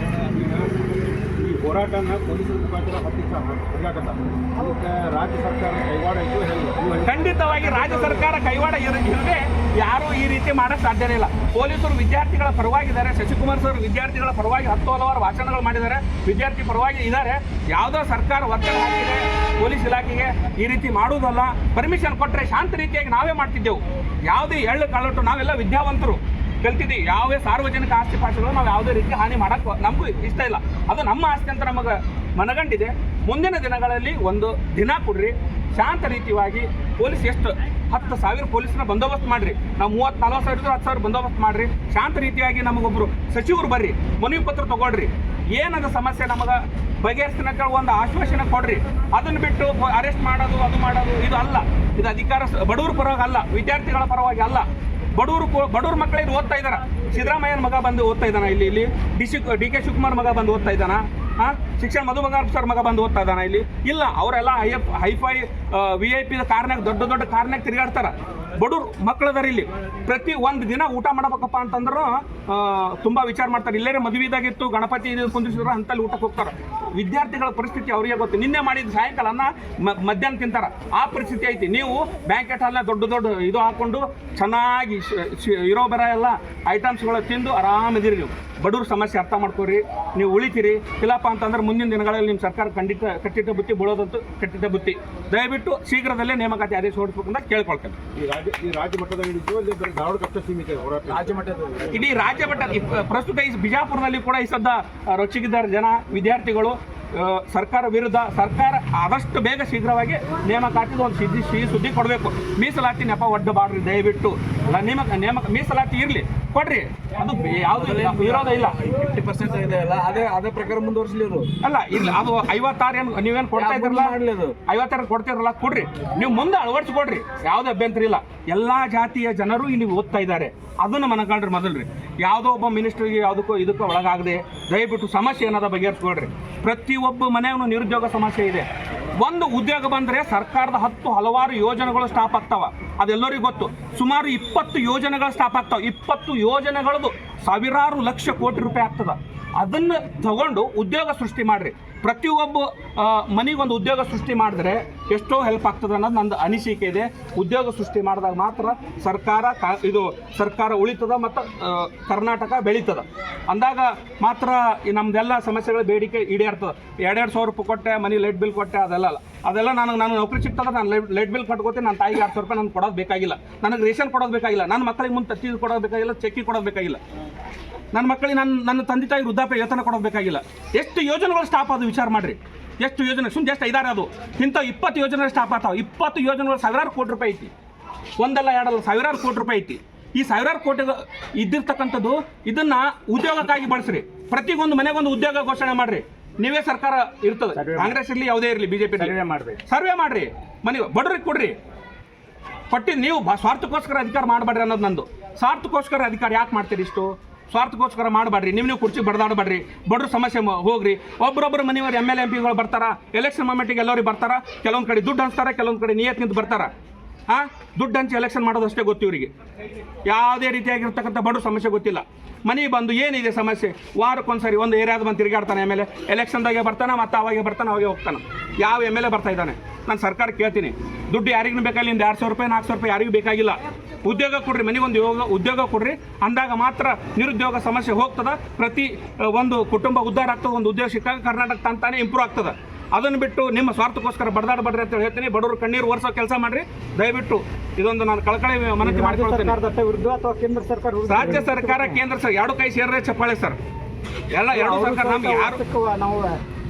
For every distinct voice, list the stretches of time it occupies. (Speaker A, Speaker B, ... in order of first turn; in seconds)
Speaker A: 0.1-7.3, 98.1-101.5
Speaker B: 7.0-98.0, 101.9-118.8, 121.6-138.7, 139.2-177.0, 177.9-187.5, 188.2-201.6, 202.7-216.7, 217.3-219.3, 220.1-249.6, 251.1-253.6, 254.3-255.6
Speaker C: 101.3-101.9, 117.8-121.5, 123.6-124.5, 197.6-197.9, 199.1-199.6
Speaker D: 248.8-252.0, 254.5-256.4